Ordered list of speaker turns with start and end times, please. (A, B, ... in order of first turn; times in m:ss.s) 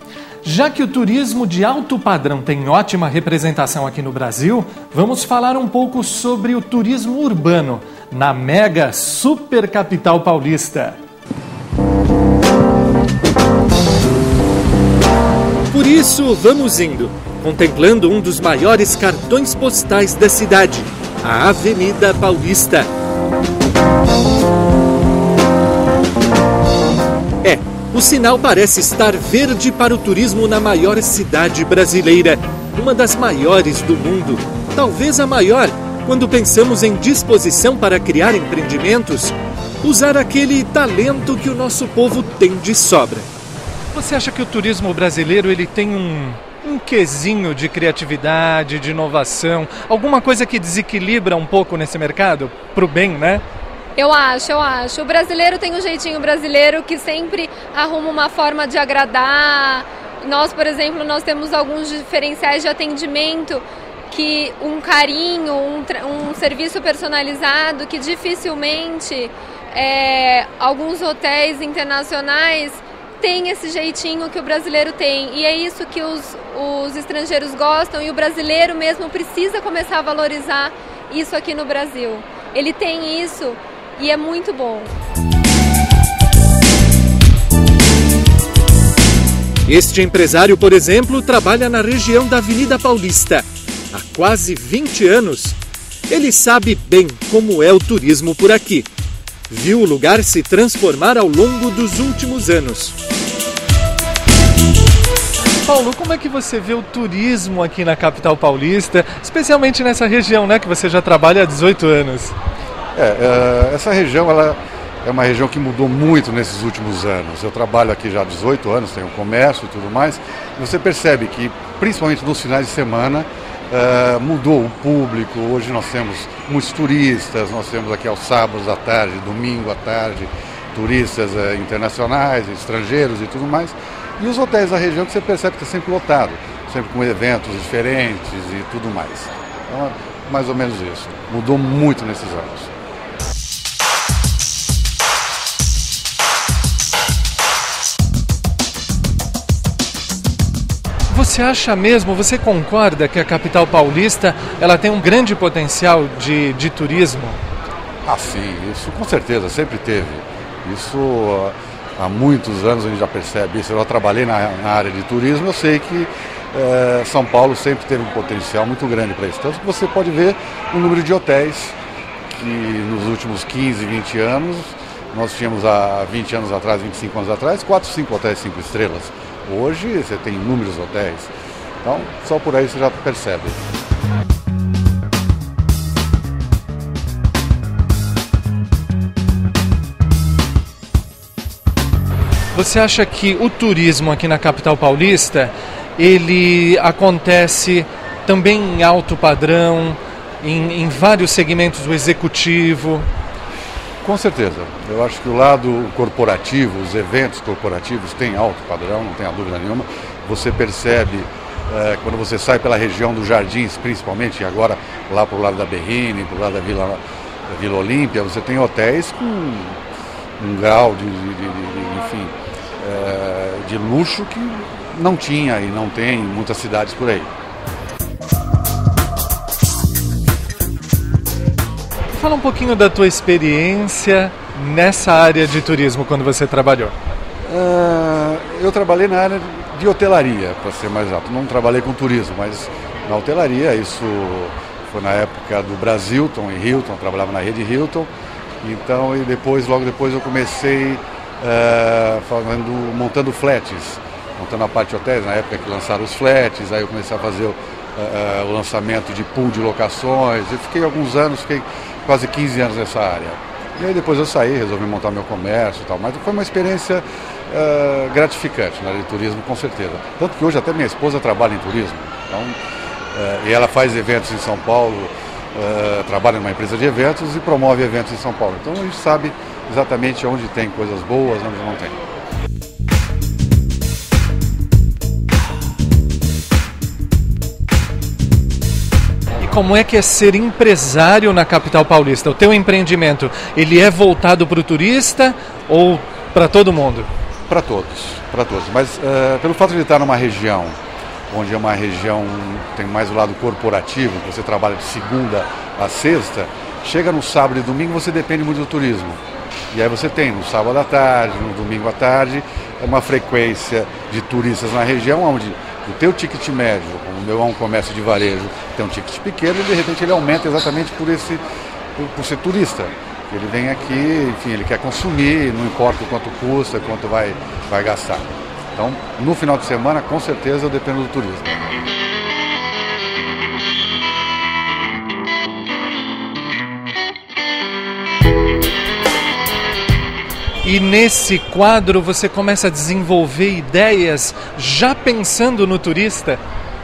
0:00.4-0:11.0 A
0:15.7-0:22.9 A
0:27.4-0:43.3 A
0:43.9-0:53.4 A
0:54.0-1:24.9 B
1:29.6-1:35.6 A
1:36.1-1:38.9 A
1:39.5-1:42.9 A
1:45.6-1:52.3 A
1:52.9-2:22.7 C
2:31.1-2:37.4 A
2:38.0-2:51.8 C
2:52.3-3:01.3 C
3:01.8-3:03.6 C
3:12.5-3:23.0 A
3:24.0-3:39.8 C
3:40.4-3:47.3 C
3:52.1-3:56.9 A
3:57.5-4:08.1 C
4:08.6-4:32.6 C
4:33.1-4:42.0 C
4:49.4-4:57.1 A
4:57.5-5:00.8 C
5:01.3-5:21.4 C
5:22.0-5:31.8 C
5:40.6-5:46.4 A